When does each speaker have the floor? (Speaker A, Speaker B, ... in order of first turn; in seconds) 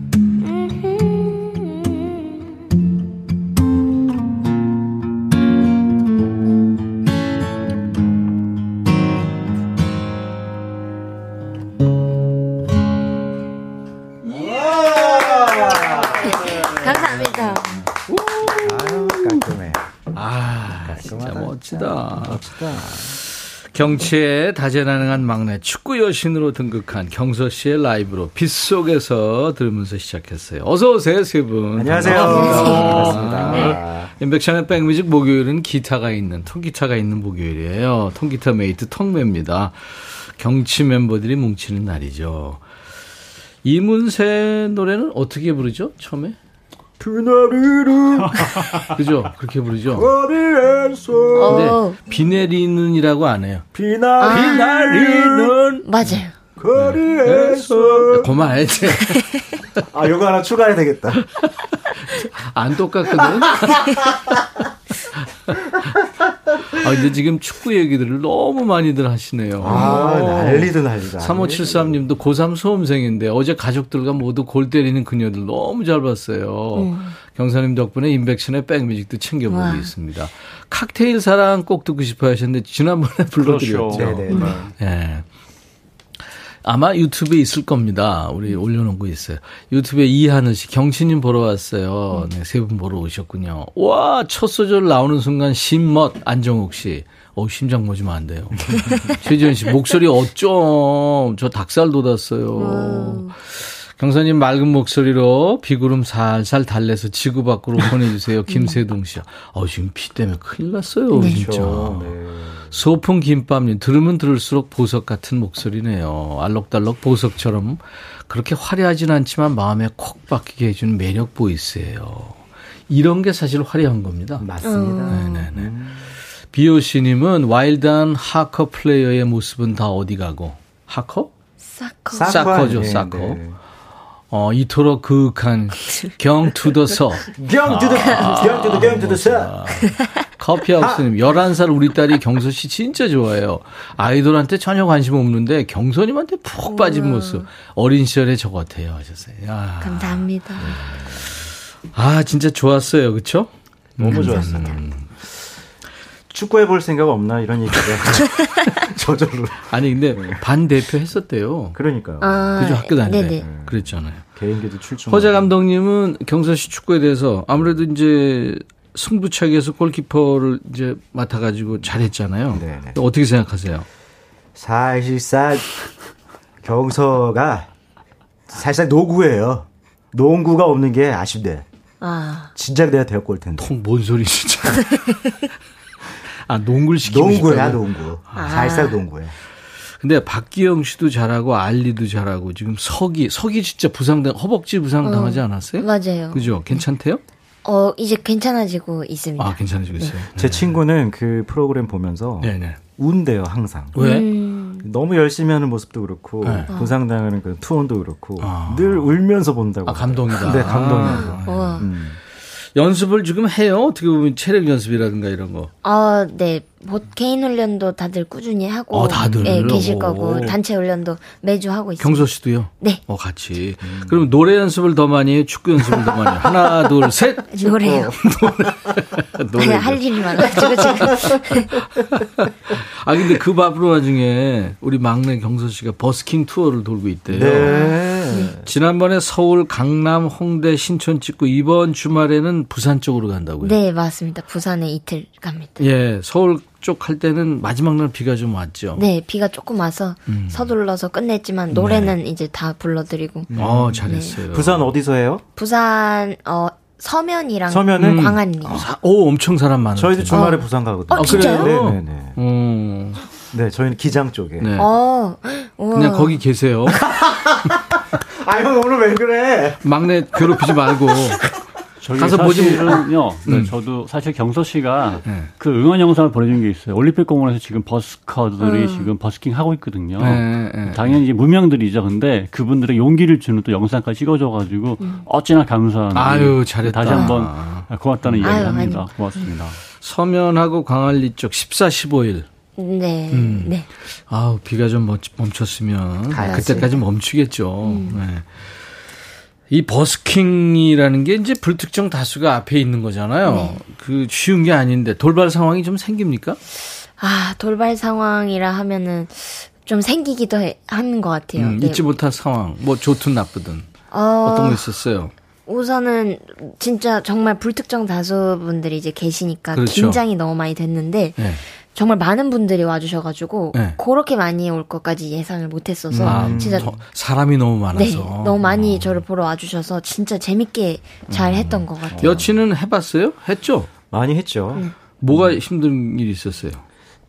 Speaker A: 0.4-2.5, 16.1-17.9, 32.3-32.9, 51.4-52.0, 54.2-54.6, 55.8-56.4, 59.0-59.4, 69.7-70.3, 76.8-77.2, 79.5-79.9, 84.3-84.6, 102.6-103.3, 108.5-108.8, 111.1-111.4, 124.6-125.5, 131.6-132.6, 135.8-136.1, 138.0-138.5, 139.8-140.3, 146.6-147.5, 149.8-150.7, 154.1-154.6, 162.2-163.4, 182.0-182.5, 184.8-185.3, 188.3-189.0, 195.0-196.5, 197.7-200.2, 204.0-204.9, 206.7-207.0, 211.2-211.9, 215.8-223.0, 227.5-228.2, 229.6-231.7, 237.6-238.6, 243.6-245.9, 249.0-254.4, 255.6-258.8, 260.3-261.8, 264.8-266.4, 278.6-279.1, 288.4-289.5, 292.8-293.9, 296.3-297.0, 297.8-298.2, 303.4-303.8, 307.2-312.2, 314.1-314.8, 315.7-326.9, 327.9-332.4
Speaker B: 14.3-16.8, 18.4-19.8, 20.6-23.2, 31.8-34.1, 47.0-48.9, 49.9-51.9, 53.7-55.6, 56.6-58.3, 59.9-61.2, 63.2-64.0, 69.6-72.0, 83.9-84.7, 111.2-112.7, 124.4-126.1, 132.1-133.6, 137.4-139.6, 140.8-141.0, 150.6-151.3, 154.0-154.8, 156.3-160.4, 161.8-162.6, 163.4-165.5, 172.5-173.0, 174.6-175.7, 176.6-177.7, 178.5-181.7, 182.5-183.7, 187.0-189.3, 200.2-204.0, 204.7-212.2, 219.2-219.8, 223.8-224.3, 225.9-226.9, 227.6-228.4, 230.4-232.0, 237.3-238.7, 251.8-252.2, 253.5-255.4, 257.6-258.9, 259.9-262.4, 263.5-264.8, 267.0-267.6, 268.2-269.8, 270.3-271.2, 296.3-297.0, 326.1-327.0, 328.6-329.2, 331.4-332.5, 334.1-335.6
Speaker C: 14.4-17.4, 18.0-19.4, 20.1-23.2, 23.7-42.6, 43.6-46.4, 48.9-50.1, 51.4-53.7, 54.2-56.2, 56.8-59.4, 61.2-64.1, 66.8-85.2, 86.6-112.2, 112.7-124.5, 125.1-125.7, 126.5-131.3, 132.2-133.4, 134.3-150.8, 151.9-155.1, 159.6-161.8, 162.6-164.3, 165.1-173.9, 183.6-185.2, 186.5-188.8, 190.0-197.2, 199.4-200.8, 202.4-202.8, 204.0-204.3, 206.4-206.7, 208.4-209.2, 209.8-211.9, 212.8-215.7, 218.9-220.6, 222.0-231.2, 232.0-237.9, 238.6-243.8, 245.8-249.1, 250.3-250.8, 251.7-252.1, 253.6-254.9, 258.0-263.2, 264.6-265.0, 265.9-267.0, 269.8-271.4, 272.2-273.7, 275.2-275.5, 280.2-281.1, 286.1-288.9, 290.0-292.5, 293.3-298.5, 299.7-306.6, 311.6-313.9, 314.4-315.3, 319.7-320.2, 321.4-321.6, 323.7-324.0, 326.1-329.2, 331.3-333.9, 335.2-336.8
Speaker D: 32.1-33.7, 83.4-84.1, 272.0-289.8